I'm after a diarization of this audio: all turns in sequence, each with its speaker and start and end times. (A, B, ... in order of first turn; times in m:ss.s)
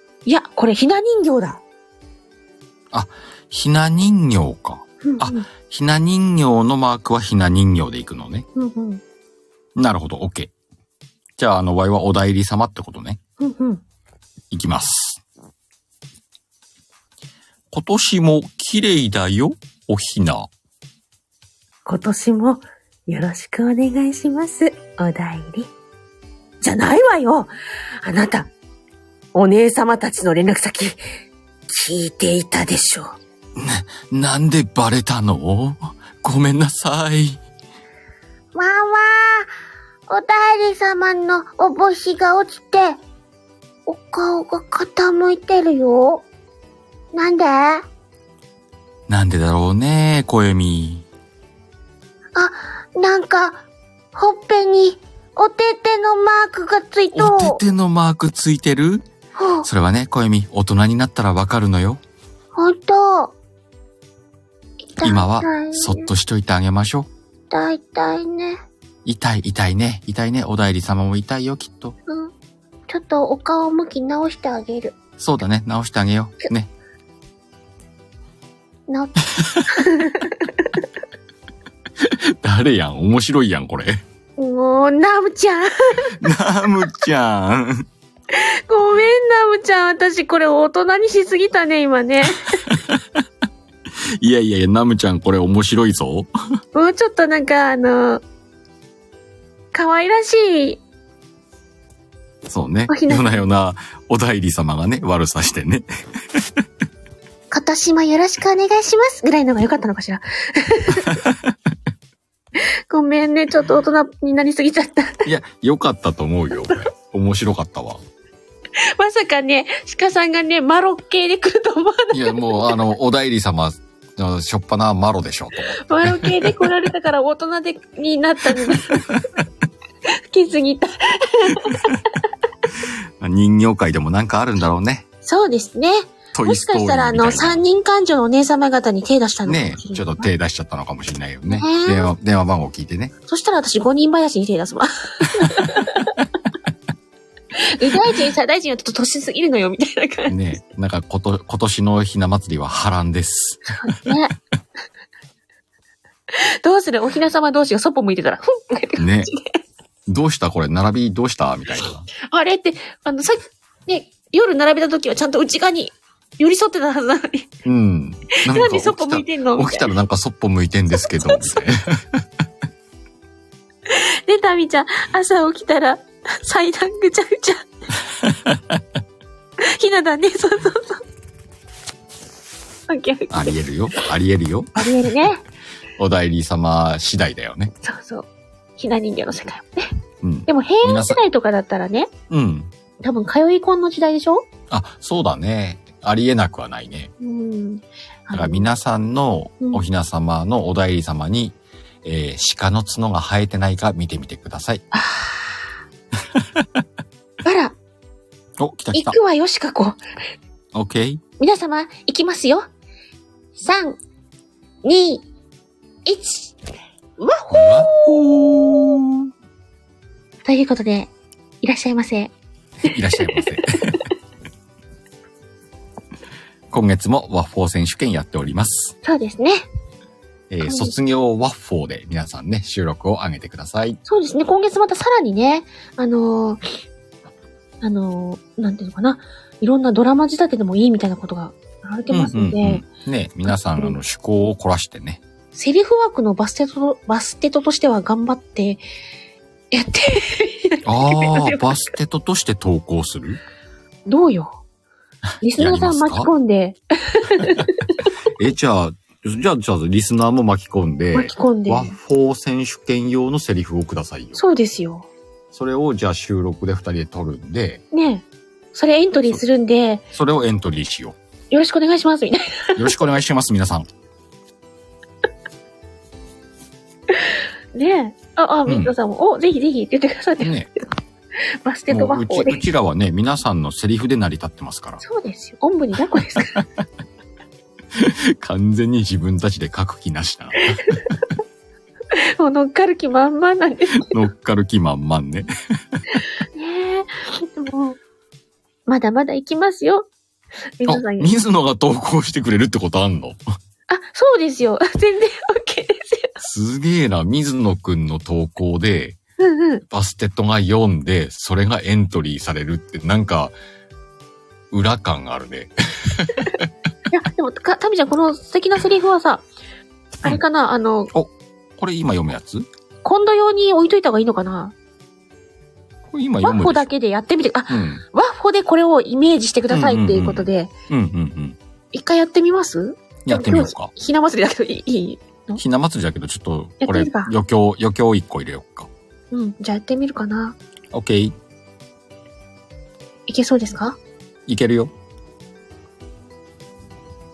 0:00.2-0:01.6 A
0:02.9-0:08.4 B
0:05.0-0:05.5 A
0:08.6-0:09.0 A
0:09.8-0:10.5 B
0:11.4-0:13.2 B
0:13.4-0:13.8 A
0:14.5-0:15.2 B
0:17.7-0:20.5 B
0:21.8-0:25.7 A
0:26.6-0:27.5 A
0:28.0-0:28.5 A
0:29.3-0:31.0 A
0:31.7-0:33.2 A
0:33.6-0:37.4 B
0:38.5-0:39.5 C
0:40.1-0:43.0 C
0:43.9-0:46.2 C
0:47.1-0:47.8 C
0:49.1-0:51.0 B
0:52.4-0:53.5 A
0:54.2-0:57.4 C
0:57.1-0:59.0 B
0:59.4-0:59.7 A
0:59.6-1:02.0 B
1:02.6-1:03.3 A
1:02.8-1:03.3 C
1:05.0-1:06.1 A
1:05.0-1:07.1 B
1:07.5-1:08.6 A
1:09.0-1:12.0 B
1:12.1-1:12.3 A
1:12.9-1:14.9 A
1:15.2-1:16.7 B
1:18.9-1:19.1 A
1:19.4-1:19.8 B
1:19.7-1:20.8 A
1:22.0-1:24.0 B
1:24.4-1:26.2 A
1:26.2-1:27.8 B
1:28.3-1:32.6 A
1:32.6-1:33.0 B
1:34.2-1:36.3 B
1:36.7-1:38.2 A
1:39.7-1:40.8 A
1:42.5-1:46.4 B
1:42.9-1:43.5 A
1:47.5-1:51.2 A
1:51.0-1:51.6 B
1:52.6-1:55.3 A
1:55.2-1:58.0 B
1:58.8-2:02.8 A
2:02.1-2:06.7 B
2:05.8-2:09.2 A
2:08.5-2:09.2 B
2:10.1-2:12.0 A
2:12.8-2:15.0 B
2:15.2-2:20.3 A
2:16.3-2:17.6 B
2:19.4-2:23.1 B
2:21.5-2:22.1 A
2:23.3-2:26.2 A
2:25.4-2:25.9 B
2:27.5-2:30.4 A
2:30.3-2:33.7 B
2:33.7-2:34.3 A
2:36.3-2:39.6 A
2:39.0-2:39.3 B
2:40.1-2:42.1 B
2:42.3-2:47.5 A
2:47.6-2:52.2 B
2:48.3-2:49.9 A
2:51.0-2:51.6 A
2:53.9-2:57.7 A
2:58.2-2:58.8 B
2:59.6-3:01.0 A
3:02.9-3:04.1 A
3:03.3-3:05.2 B
3:04.8-3:05.4 A
3:06.0-3:07.7 B
3:07.8-3:09.8 A
3:10.2-3:11.2 B
3:10.5-3:12.1 A
3:12.3-3:12.7 B
3:13.0-3:14.5 A
3:14.7-3:17.1 B
3:17.2-3:18.7 A
3:18.3-3:24.8 B
3:24.9-3:25.6 A
3:26.3-3:26.8 B
3:27.4-3:27.8 A
3:28.6-3:29.2 B
3:28.9-3:30.0 A
3:30.7-3:31.2 B
3:31.4-3:32.6 A
3:33.6-3:34.0 A
3:34.8-3:35.2 A
3:36.0-3:36.5 A
3:37.2-3:38.1 A
3:37.5-3:39.3 B
3:40.4-3:41.1 A
3:41.6-3:42.3 A
3:42.8-3:44.0 B
3:42.9-3:43.5 A
3:46.7-3:48.9 B
3:49.0-3:49.6 A
3:50.5-3:54.0 B
3:50.6-3:50.9 A
3:54.0-3:56.6 A
3:57.8-4:02.9 A
4:02.1-4:05.2 B
4:03.5-4:04.0 A
4:05.5-4:08.8 A
4:09.7-4:11.8 A
4:10.8-4:13.4 B
4:14.1-4:14.6 A
4:15.4-4:18.1 A
4:15.6-4:16.3 B
4:18.2-4:24.4 B
4:21.1-4:22.0 A
4:24.3-4:25.1 A
4:25.5-4:27.8 B
4:27.9-4:30.0 A
4:30.1-4:31.2 B
4:31.5-4:33.0 A
4:32.8-4:33.8 B
4:37.1-4:40.5 A
4:38.7-4:38.9 B
4:40.4-4:40.7 B
4:41.6-4:42.6 A
4:41.9-4:45.0 B
4:45.0-4:46.6 A
4:46.4-4:46.6 B
4:47.9-4:51.1 B
4:50.7-4:51.2 A
4:52.1-4:54.1 A
4:54.0-4:55.5 B
4:56.1-4:58.0 A
4:58.9-5:00.1 A
5:00.8-5:01.4 A
5:00.8-5:03.4 B
5:03.9-5:06.4 A
5:06.4-5:09.2 B
5:09.4-5:09.8 A
5:09.9-5:13.5 B
5:14.7-5:16.6 B
5:17.1-5:19.4 A
5:20.2-5:21.1 A
5:21.1-5:22.6 B
5:23.0-5:24.7 A
5:26.1-5:26.9 B
5:26.4-5:30.7 A
5:27.7-5:28.0 B
5:29.7-5:31.6 B
5:31.9-5:35.6 A
5:33.2-5:33.9 B
5:35.6-5:38.9 B
5:36.8-5:37.3 A
5:39.3-5:40.6 A
5:40.9-5:41.3 B
5:43.3-5:44.0 A
5:44.5-5:44.9 B